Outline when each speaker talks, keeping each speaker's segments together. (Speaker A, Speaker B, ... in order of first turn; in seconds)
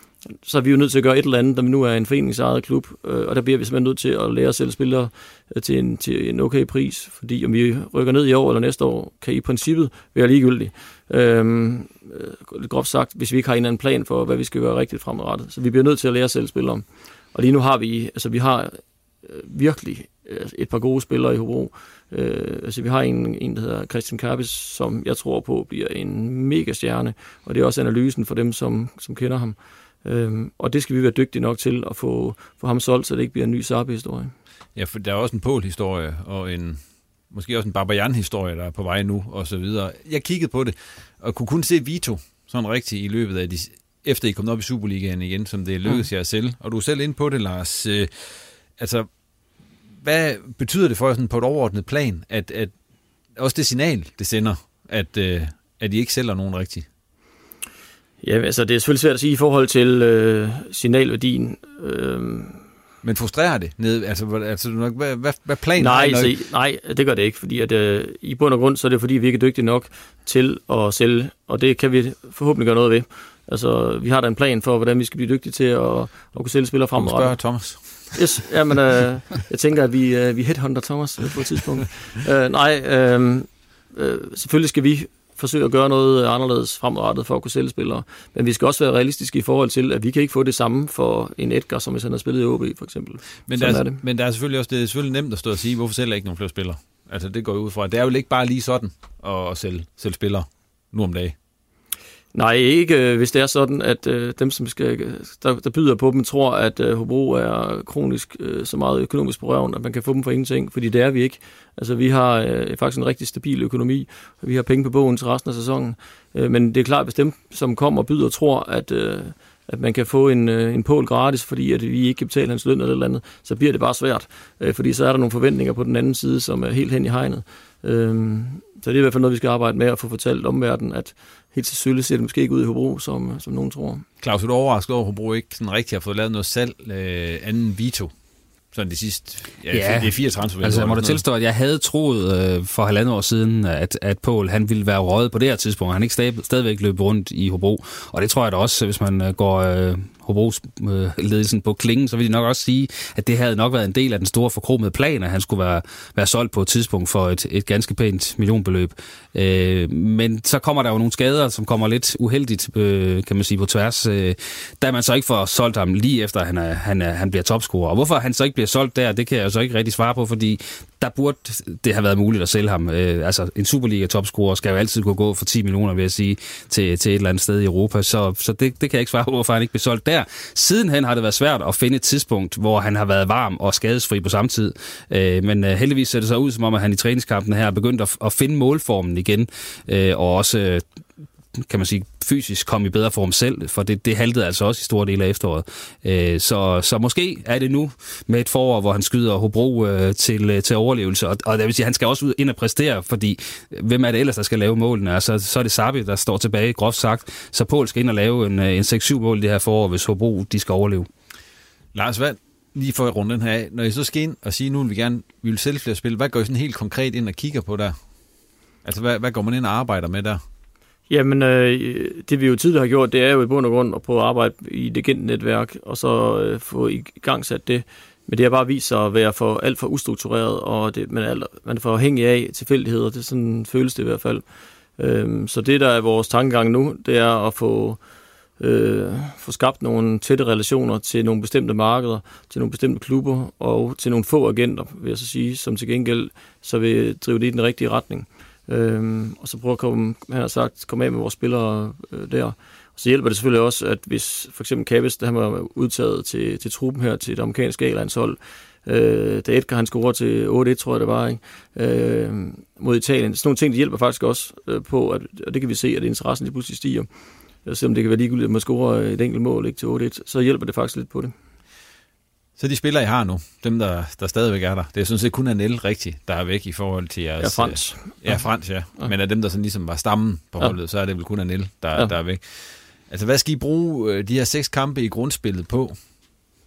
Speaker A: 0.3-34.3, 58.2-62.6, 65.8-94.0, 102.3-134.1, 221.1-234.4, 235.0-238.0, 238.6-267.1, 267.6-271.3, 277.4-279.1
Speaker B: 34.8-49.1, 50.0-52.7, 53.4-56.9, 63.0-66.3, 77.0-78.2, 93.5-101.3, 134.2-138.1, 138.7-141.2, 211.9-218.0, 218.8-220.4, 272.6-286.0
Speaker C: 139.7-190.8, 191.7-211.1